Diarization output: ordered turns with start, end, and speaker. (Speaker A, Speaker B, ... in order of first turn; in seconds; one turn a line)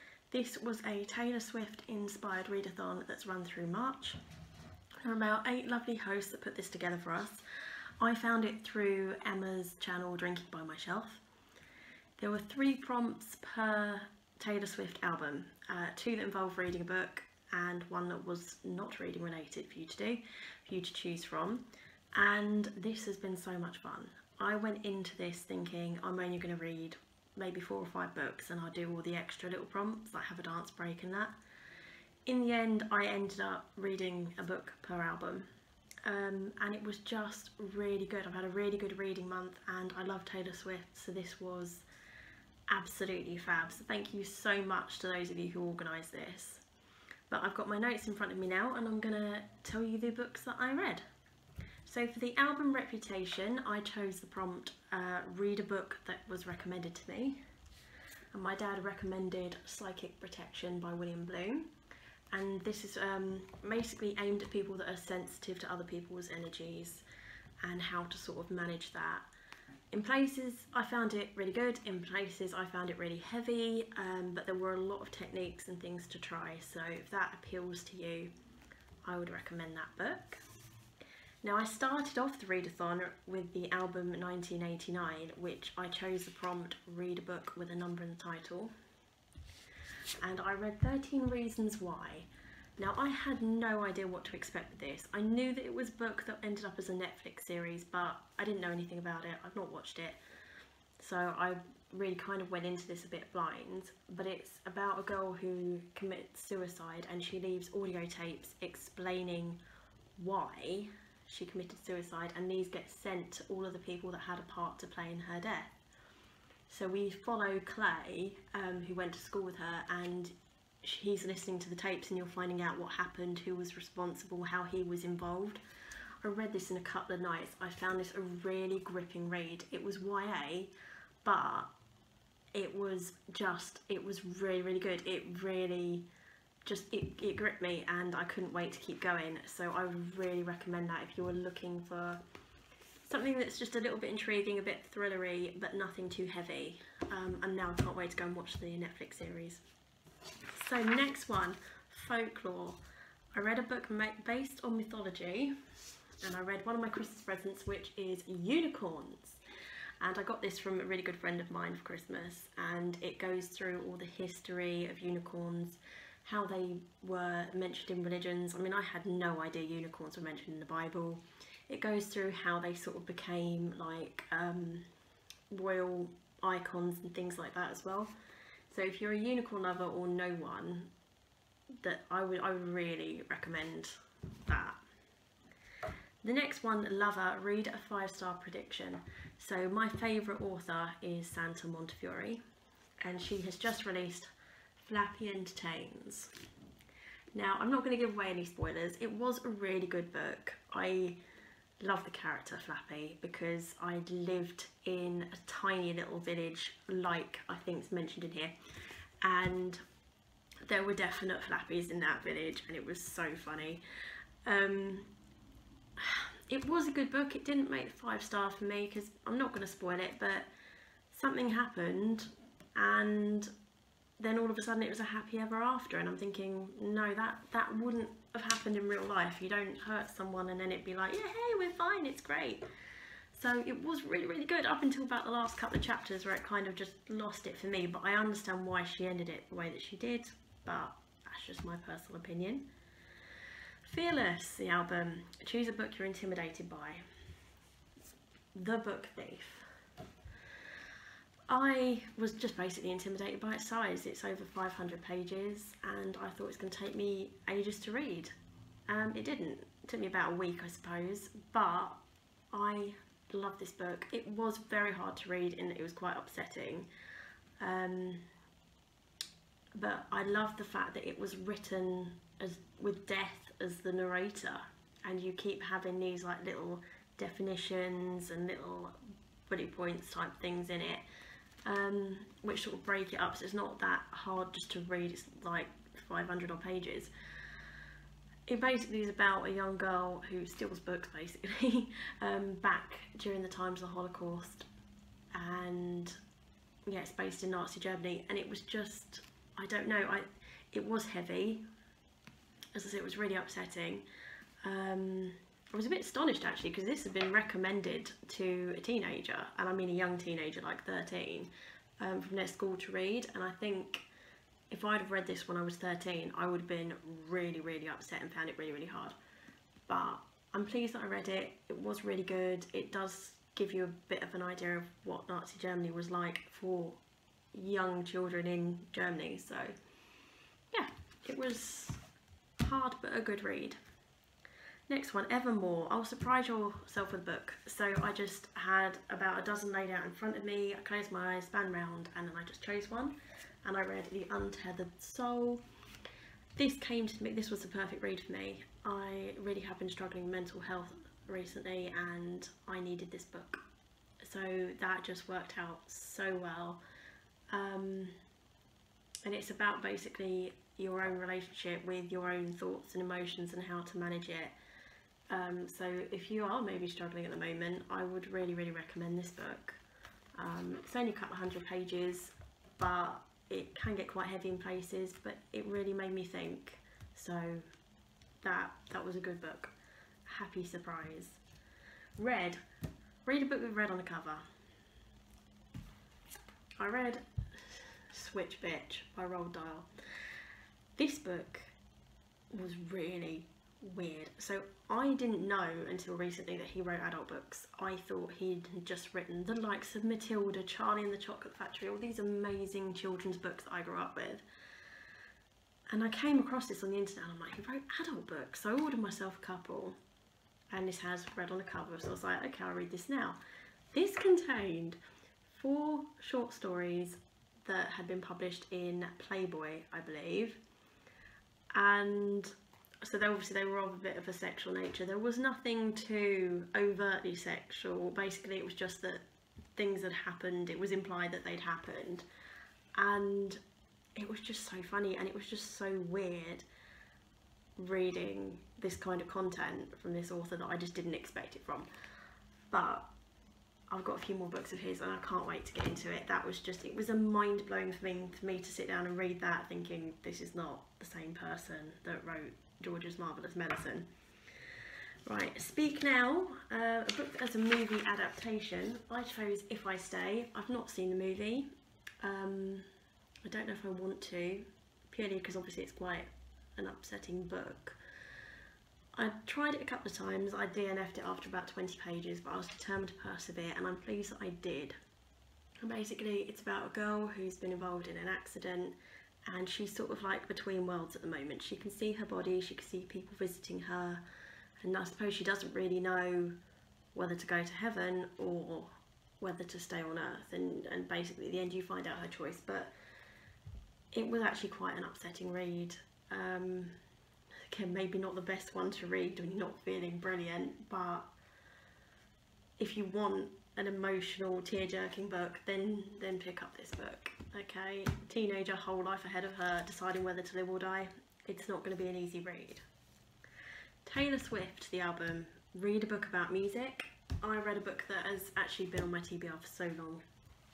Speaker A: 0.3-4.2
Speaker A: 5.0-7.4
Speaker A: 8.0-11.2
Speaker A: 12.2-31.4
Speaker A: 32.3-35.5
Speaker A: 36.0-41.9
Speaker A: 42.7-46.6
Speaker A: 47.3-51.0
Speaker A: 51.9-57.4
Speaker A: 58.3-61.7
Speaker A: 62.3-67.0
Speaker A: 67.6-69.3
Speaker A: 69.9-78.3
Speaker A: 79.0-80.4
Speaker A: 81.4-88.7
Speaker A: 90.2-100.2
Speaker A: 101.0-109.6
Speaker A: 110.2-115.7
Speaker A: 116.7-125.6
Speaker A: 126.2-130.7
Speaker A: 131.2-131.7
Speaker A: 132.5-136.1
Speaker A: 136.7-142.2
Speaker A: 143.0-149.6
Speaker A: 150.5-152.8
Speaker A: 153.3-155.5
Speaker A: 156.2-159.4
Speaker A: 160.0-174.9
Speaker A: 175.5-178.1
Speaker A: 178.7-180.9
Speaker A: 181.8-184.8
Speaker A: 186.2-192.4
Speaker A: 193.0-194.3
Speaker A: 194.8-196.3
Speaker A: 197.3-201.2
Speaker A: 201.8-208.5
Speaker A: 209.2-209.8
Speaker A: 210.7-213.8
Speaker A: 214.4-215.1
Speaker A: 216.0-220.5
Speaker A: 221.1-223.5
Speaker A: 224.2-232.6
Speaker A: 233.3-242.7
Speaker A: 243.8-247.0
Speaker A: 248.5-249.7
Speaker A: 251.5-258.3
Speaker A: 258.9-262.0
Speaker A: 262.5-266.9
Speaker A: 267.6-268.2
Speaker A: 269.7-279.0
Speaker A: 279.5-281.0
Speaker A: 281.6-287.1
Speaker A: 288.5-294.7
Speaker A: 295.3-296.2
Speaker A: 296.9-301.7
Speaker A: 302.8-304.1
Speaker A: 304.6-314.1
Speaker A: 314.7-319.1
Speaker A: 319.9-327.0
Speaker A: 327.5-329.7
Speaker A: 330.7-332.0
Speaker A: 332.6-333.8
Speaker A: 334.9-345.6
Speaker A: 346.6-353.6
Speaker A: 354.2-356.8
Speaker A: 357.5-358.1
Speaker A: 359.2-364.6
Speaker A: 365.3-369.8
Speaker A: 370.4-377.6
Speaker A: 378.4-379.7
Speaker A: 380.3-381.4
Speaker A: 382.2-382.6
Speaker A: 383.2-384.4
Speaker A: 386.8-389.9
Speaker A: 391.0-391.7
Speaker A: 392.5-404.4
Speaker A: 405.9-410.0
Speaker A: 410.7-413.4
Speaker A: 413.9-420.6
Speaker A: 421.7-422.5
Speaker A: 423.0-429.2
Speaker A: 429.8-432.3
Speaker A: 433.0-433.6
Speaker A: 434.2-436.6
Speaker A: 437.8-441.9
Speaker A: 442.7-443.1
Speaker A: 443.9-454.1
Speaker A: 455.3-461.7
Speaker A: 462.2-462.9
Speaker A: 463.4-468.0
Speaker A: 469.1-475.0
Speaker A: 475.8-484.2
Speaker A: 484.8-486.6
Speaker A: 487.1-492.9
Speaker A: 494.1-497.0
Speaker A: 497.7-501.3
Speaker A: 502.8-512.8
Speaker A: 514.0-520.2